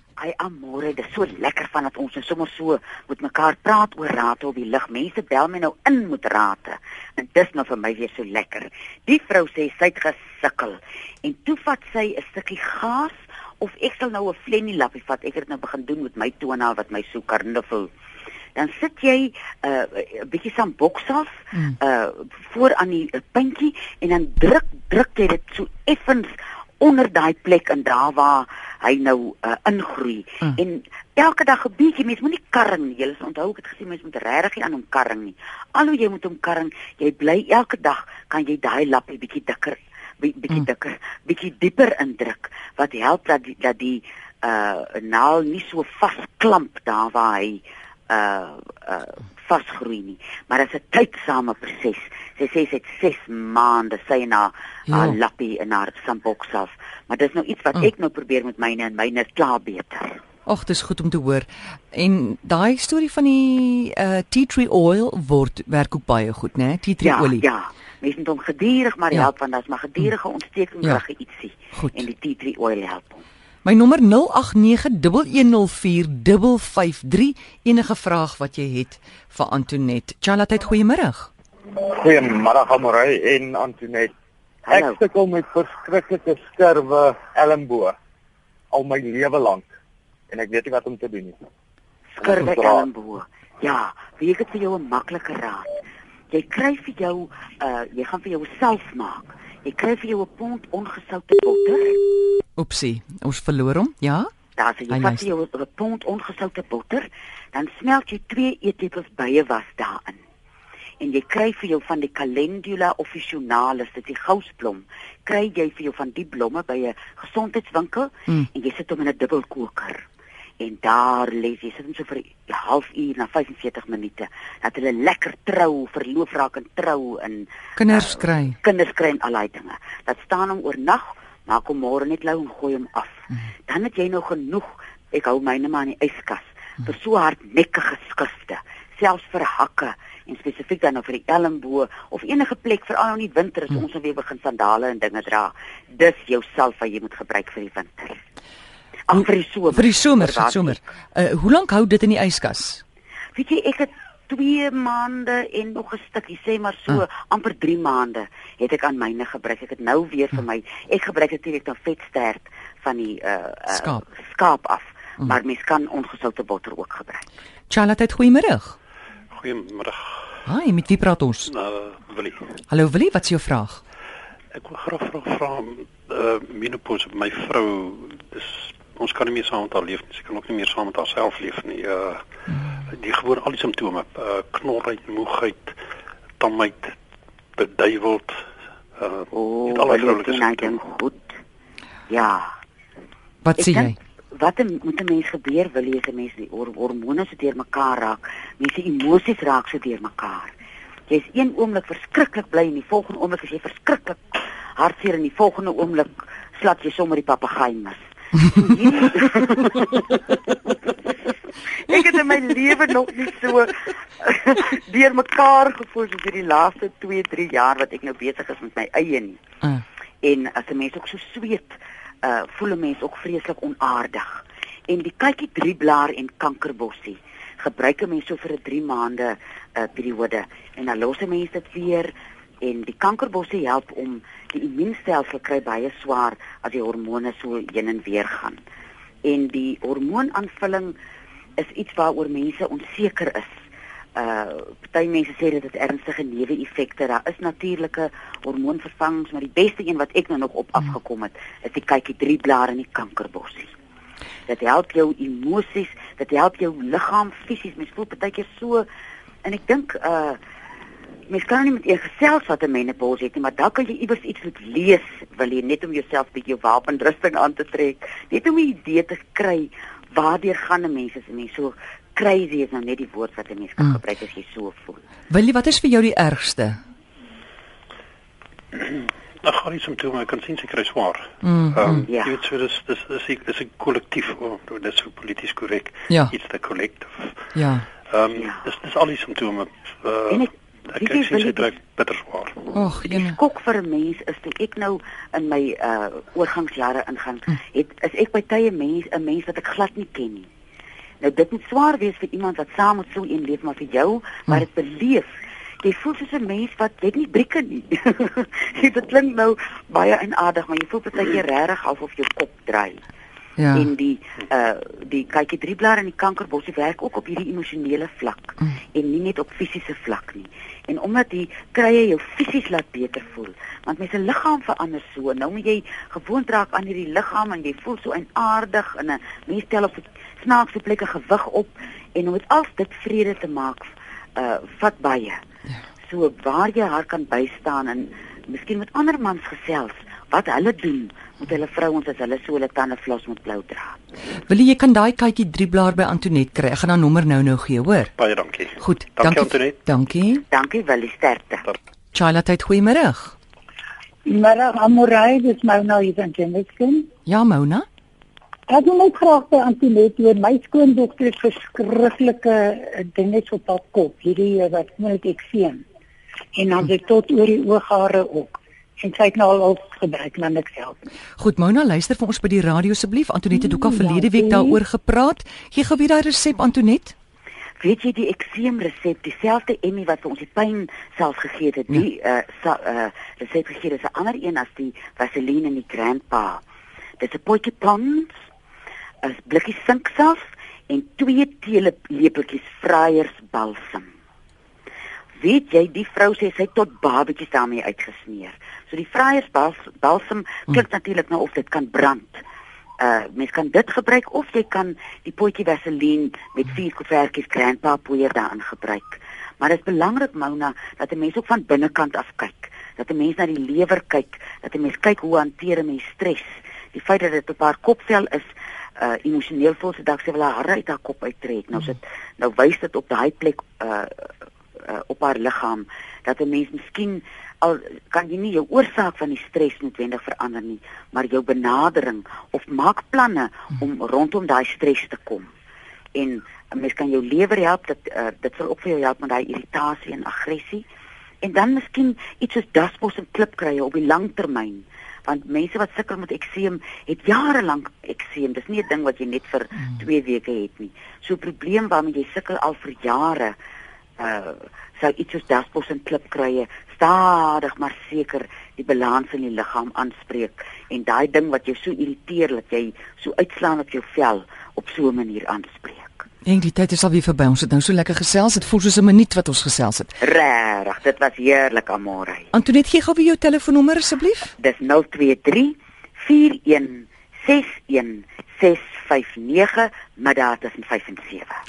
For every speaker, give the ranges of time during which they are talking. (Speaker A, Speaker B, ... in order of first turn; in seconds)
Speaker A: 0.2-17.9, 18.6-60.2, 67.0-73.2, 84.7-85.0, 92.1-95.7, 96.3-102.0, 104.6-110.2, 111.0-120.0, 120.6-148.2, 149.1-150.8, 153.3-167.2, 189.3-191.3, 192.1-192.5, 193.6-200.5, 201.1-210.2, 211.8-219.4, 220.2-238.6, 239.2-240.9, 241.6-243.5, 244.2-253.7, 254.5-258.9, 259.4-260.4, 261.3-275.0, 282.1-282.4, 290.3-291.8, 293.0-300.5, 301.2-313.0, 313.7-335.4, 336.1-344.0, 350.5-351.6, 377.8-386.6, 387.2-388.3, 389.2-394.1, 395.4-402.4, 403.0-418.5, 419.0-435.5, 436.1-440.9, 441.4-453.6, 454.2-466.3, 470.2-472.5, 474.6-481.6
Speaker B: 54.9-55.2, 60.5-67.4, 71.7-72.0, 73.6-81.3, 102.6-104.3, 104.9-105.2, 127.8-128.6, 149.1-152.8, 163.7-164.0, 167.7-168.8, 170.4-171.5, 172.7-173.8, 193.4-193.9, 275.3-276.8, 281.4-282.0, 286.1-286.3, 287.5-287.9, 292.7-293.4, 313.6-313.9, 344.5-348.1, 348.8-350.4, 352.1-353.3, 357.2-357.9, 371.4-377.1, 466.4-470.1, 472.5-474.5
Speaker C: 81.8-84.1, 84.7-87.9, 88.7-89.7, 90.3-91.4, 92.2-92.9
Speaker D: 169.3-170.4, 171.4-172.5, 174.5-182.2, 182.8-185.8, 186.4-186.9, 187.6-188.4, 189.0-190.8, 278.7-287.5, 288.1-292.7, 348.2-349.8
Speaker E: 354.2-357.1, 358.7-365.8, 366.5-371.0, 373.7-374.8